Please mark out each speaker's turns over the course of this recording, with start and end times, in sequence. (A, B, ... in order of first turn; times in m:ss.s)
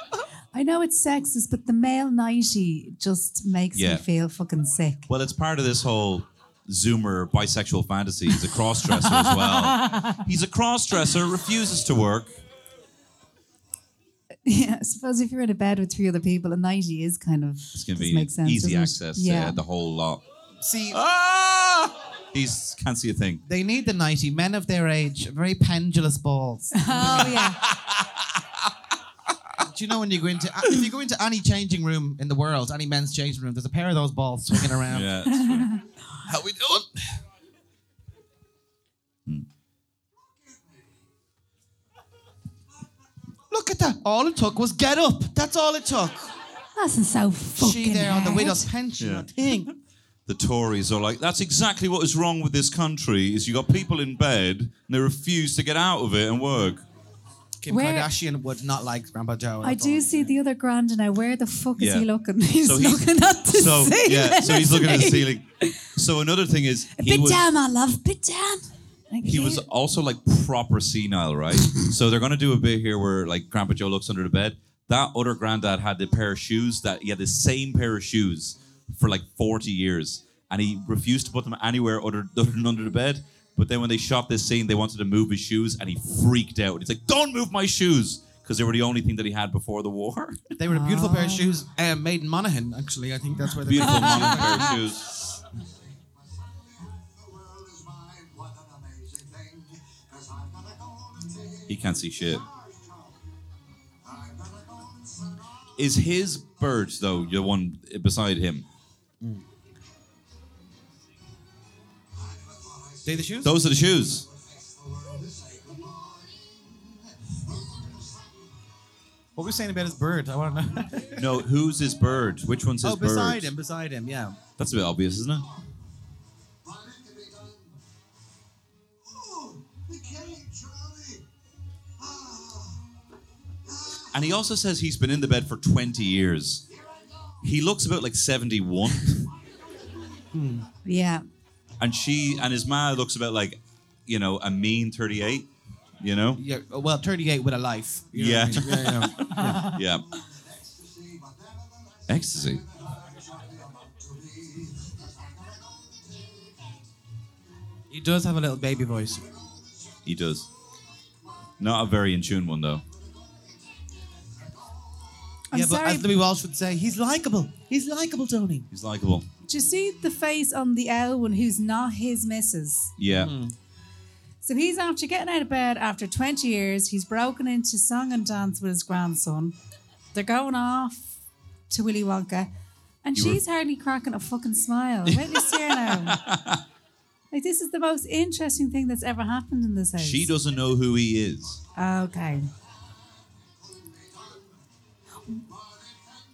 0:00.5-0:05.1 A
0:03.7-0:04.0 B
0:05.1-0:12.4 B
0:09.0-0:10.2 A
0:14.4-0:19.6 A
0:17.7-0:20.2 B
0:20.6-0:21.0 C
0:20.9-0:23.4 B
0:23.4-0:27.9 C
0:26.7-0:27.6 A
0:29.6-0:35.1 C
0:34.8-0:35.7 B
0:35.3-0:35.9 A
0:36.2-0:37.2 C
0:43.5-0:46.3 C
0:46.7-0:48.7 A
0:47.6-0:49.7 C
0:49.0-0:49.7 B
0:50.2-0:56.8 B
0:57.6-1:00.3 C
0:57.7-0:58.1 A
0:59.6-1:05.3 A
1:01.8-1:02.1 B
1:02.6-1:07.4 B
1:06.9-1:09.6 A
1:09.2-1:30.4 B
1:30.6-1:34.8 C
1:30.7-1:31.4 A
1:33.5-1:35.2 B
1:33.7-1:34.8 A
1:36.5-1:41.6 D
1:41.7-1:42.5 B
1:42.5-1:43.2 D
1:44.0-1:45.5 D
1:45.8-1:48.6 B
1:52.5-1:52.9 D
1:53.0-1:53.6 C
1:53.4-1:54.3 B
1:54.3-1:58.4 D
1:59.4-2:01.3 C
2:01.2-2:03.5 B
2:02.8-2:04.4 C
2:04.6-2:05.5 B
2:06.7-2:07.6 D
2:09.2-2:11.2 D
2:12.1-2:12.6 D
2:14.1-2:16.6 B
2:17.4-2:19.3 B
2:20.3-2:20.7 C
2:20.8-2:21.2 A
2:21.8-2:25.5 B
2:26.0-2:26.4 B
2:26.3-2:29.7 C
2:28.1-2:30.1 B
2:29.2-2:29.8 A
2:30.6-2:32.0 D
2:32.1-2:32.6 B
2:32.8-2:36.5 D
2:37.9-2:39.3 C
2:40.0-2:40.5 B
2:41.6-2:42.8 B
2:45.5-2:46.1 A
2:45.5-2:48.7 C
2:48.7-2:49.3 B
2:49.5-2:52.9 A
2:53.0-2:53.3 B
2:53.0-2:53.5 C
2:54.4-2:59.5 A
3:00.1-3:01.2 A
3:01.7-3:02.5 A
3:03.0-3:06.2 A
3:03.1-3:03.4 B
3:05.1-3:06.6 B
3:07.3-3:10.3 A
3:10.0-3:11.6 B
3:11.8-3:12.5 A
3:13.8-3:14.4 D